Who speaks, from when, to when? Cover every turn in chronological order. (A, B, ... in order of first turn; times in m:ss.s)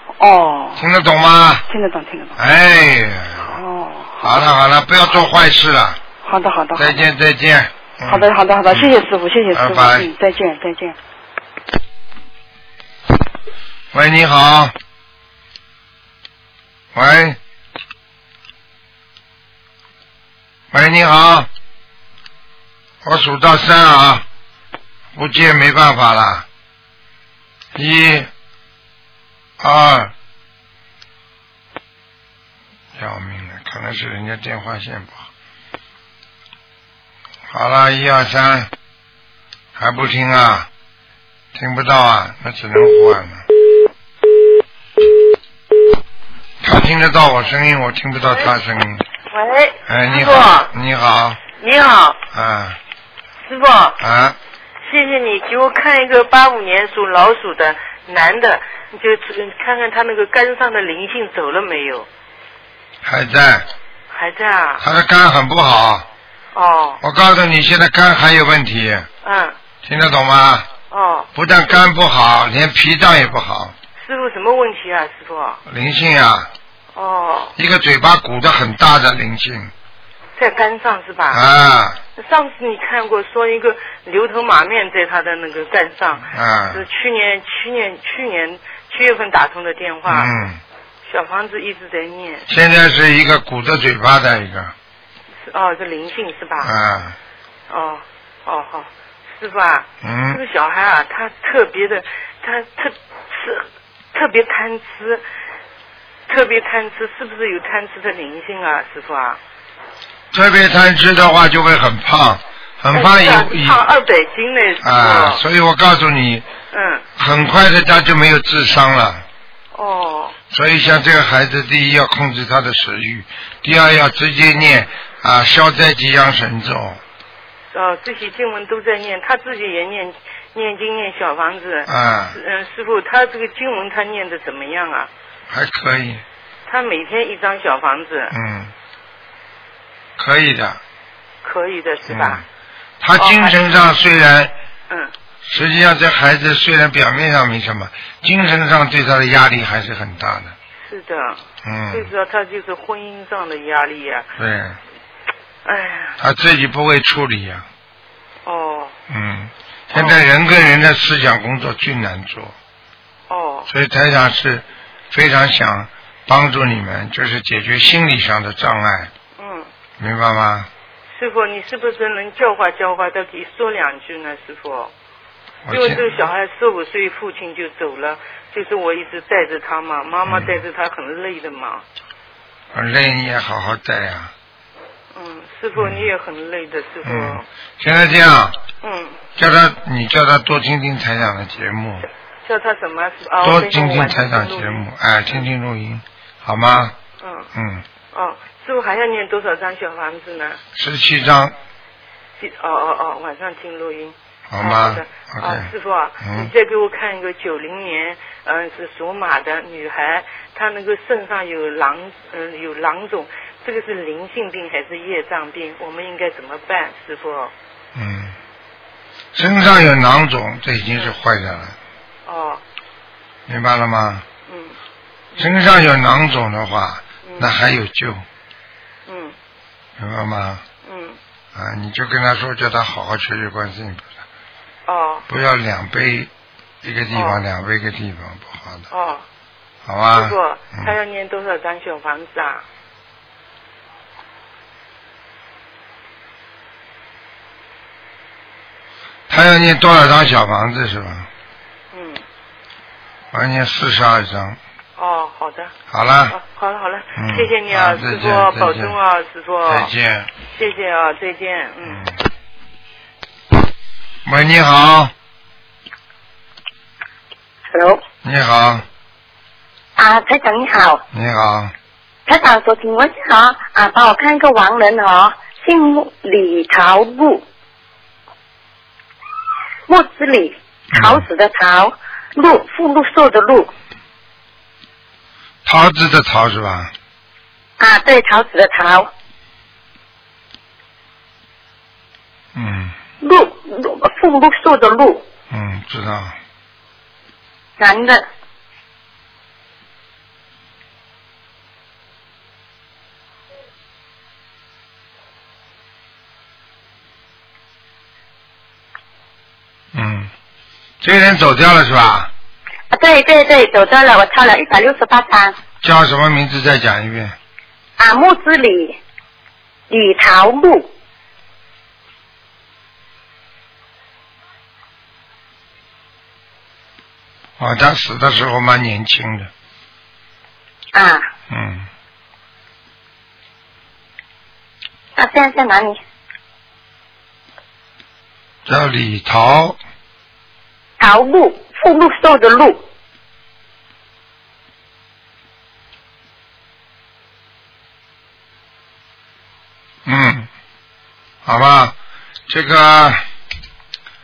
0:00.2-0:00.8 A
0:00.8-0:01.6 B
0:01.7-0:02.4 A
0:02.4-0:03.6 B
0:03.4-0:04.5 A
0:04.2-0:06.0 B
0:06.2-0:07.0 A
0:06.8-0:08.9 B
0:08.0-0:11.0 A
0:09.5-0:10.1 B
0:13.9-0:14.7 B
0:16.9-0:17.4 B
0:20.7-0:21.5 B
0:23.0-0:24.2 B
0:25.2-0:26.4 B
0:27.7-0:28.3 B
0:29.6-0:30.1 B
0:33.0-0:35.3 B
0:37.5-0:38.7 B
0:39.8-0:40.7 B
0:41.5-0:43.4 B
0:46.6-0:49.0 B
0:49.3-0:50.7 C
0:49.8-0:51.4 B
0:51.6-0:52.2 C
0:52.3-0:52.8 B
0:53.4-0:54.0 C
0:54.0-0:54.4 B
0:54.8-1:02.1 C
1:03.0-1:03.7 B
1:04.1-1:04.8 C
1:04.8-1:06.0 B
1:06.5-1:07.0 C
1:07.0-1:09.1 B
1:09.2-1:09.6 C
1:09.8-1:10.7 B
1:10.9-1:11.3 C
1:11.3-1:13.7 B
1:14.0-1:15.6 C
1:15.6-1:16.5 B
1:16.9-1:17.5 C
1:17.6-1:19.7 B
1:20.4-1:21.5 C
1:21.3-1:22.0 B
1:22.2-1:30.4 C
1:26.3-1:26.8 B
1:30.1-1:30.6 B
1:31.0-1:32.4 C
1:32.5-1:34.7 B
1:35.5-1:36.7 C
1:36.6-1:37.2 B
1:37.7-1:45.2 C
1:40.0-1:40.4 B
1:46.3-1:49.4 C
1:50.3-1:53.8 B
1:52.9-1:55.4 C
1:54.8-1:56.5 B
1:56.7-1:57.0 C
1:57.2-1:59.2 B
1:59.7-2:00.4 C
2:00.5-2:07.0 B
2:07.7-2:15.1 C
2:11.9-2:12.4 B
2:15.5-2:16.2 B
2:16.7-2:18.3 C
2:18.3-2:18.7 B
2:20.2-2:20.8 B
2:21.4-2:22.4 C
2:22.1-2:22.4 B
2:23.0-2:24.5 B
2:23.1-2:23.6 C
2:25.4-2:30.5 B
2:30.8-2:34.3 C
2:31.6-2:32.1 B
2:34.4-2:34.8 B
2:35.6-2:36.2 C
2:36.2-2:37.6 B
2:38.4-2:38.9 C
2:39.1-2:42.5 B
2:39.9-2:40.2 C
2:43.3-2:43.7 C
2:43.7-2:49.1 B
2:49.4-2:49.7 C
2:50.0-2:50.7 B
2:51.1-2:54.9 C
2:55.6-2:56.1 B
2:55.7-3:01.8 C
3:00.3-3:00.6 B
3:02.7-3:04.3 B
3:05.1-3:07.4 C
3:05.8-3:06.1 B
3:07.0-3:08.6 B
3:08.8-3:09.2 C
3:09.4-3:12.0 B
3:12.0-3:15.4 C
3:13.4-3:16.9 B
3:17.2-3:17.5 C
3:17.5-3:17.8 B
3:18.1-3:20.6 C
3:20.7-3:21.5 B
3:22.4-3:37.5 C
3:24.5-3:25.7 B
3:26.2-3:26.5 B
3:37.9-3:38.3 B
3:39.3-3:41.8 B
3:42.2-3:42.6 C
3:43.5-3:44.2 B
3:44.5-3:44.8 C
3:45.4-3:48.2 B
3:47.2-3:47.5 C
3:49.1-3:49.4 C
3:50.0-3:50.6 B
3:50.8-3:51.2 C
3:51.5-3:54.0 B
3:54.8-3:55.2 C
3:55.3-3:56.3 B
3:56.8-3:58.9 B
3:57.1-3:57.4 C
3:58.9-3:59.2 C
3:59.8-4:00.9 B
4:00.1-4:02.6 C
4:09.3-4:11.3 B
4:11.9-4:12.2 C
4:13.3-4:14.6 B
4:15.0-4:15.7 C
4:15.9-4:16.3 B
4:16.3-4:19.9 C
4:17.2-4:18.9 B
4:19.7-4:20.3 B
4:20.5-4:22.1 C
4:24.2-4:25.1 B
4:27.7-4:28.0 D
4:28.2-4:28.8 B
4:30.0-4:31.0 D
4:31.1-4:31.7 B
4:32.2-4:37.4 D
4:39.9-4:43.7 D
4:40.9-4:41.3 B
4:45.6-4:46.9 B
4:47.8-4:49.1 D
4:52.5-4:52.9 B
4:53.2-4:55.2 D
4:55.5-4:56.3 B
4:57.8-4:58.2 D
5:09.9-5:10.3 B
5:11.0-5:12.3 B
5:12.9-5:15.6 D
5:15.8-5:17.3 B
5:18.0-5:19.0 D
5:19.9-5:20.9 D
5:27.6-5:29.5 B
5:30.9-5:31.3 D
5:31.5-5:31.9 B
5:35.2-5:36.0 D
5:38.6-5:39.8 B
5:41.0-5:42.8 D
5:50.0-5:50.5 B
5:51.4-5:51.9 B
5:52.5-5:53.2 B